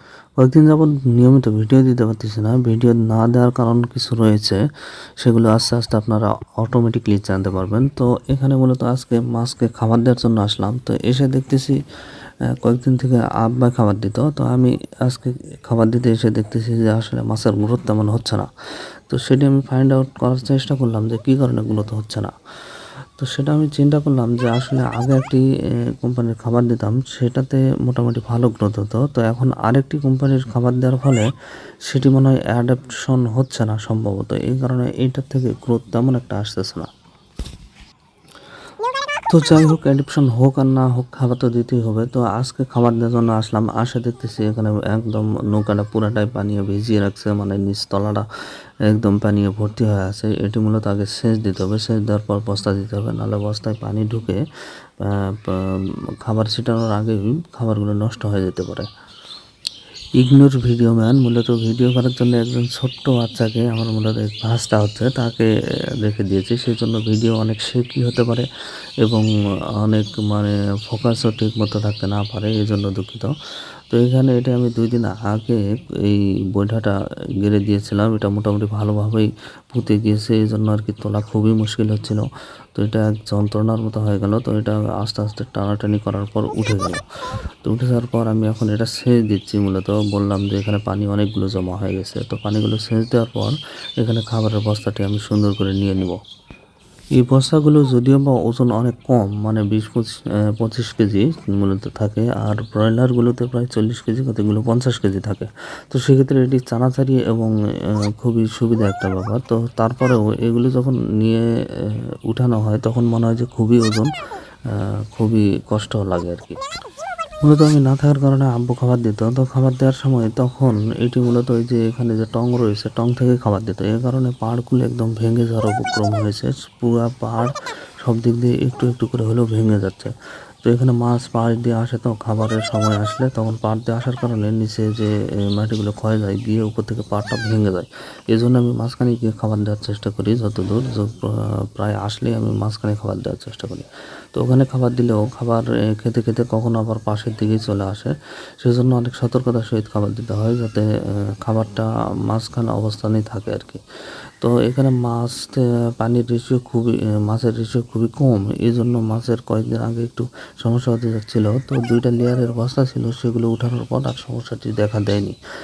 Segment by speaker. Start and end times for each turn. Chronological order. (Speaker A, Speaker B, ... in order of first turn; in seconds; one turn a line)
Speaker A: 0.4-4.6
Speaker A: 5.2-11.8
Speaker A: 12.5-18.5
Speaker A: 19.1-22.3
Speaker A: 23.2-31.3
Speaker A: 31.9-36.9
Speaker A: 39.3-48.2
Speaker A: 48.9-54.4
Speaker A: 55.0-58.9
Speaker A: 60.2-68.5
Speaker A: 69.8-73.3
Speaker A: 73.9-87.0
Speaker A: 87.6-96.2
Speaker A: 97.2-107.5
Speaker A: 108.2-114.1
Speaker A: 114.7-116.6
Speaker A: 117.4-130.1
Speaker A: 130.6-153.8
Speaker A: 154.4-165.4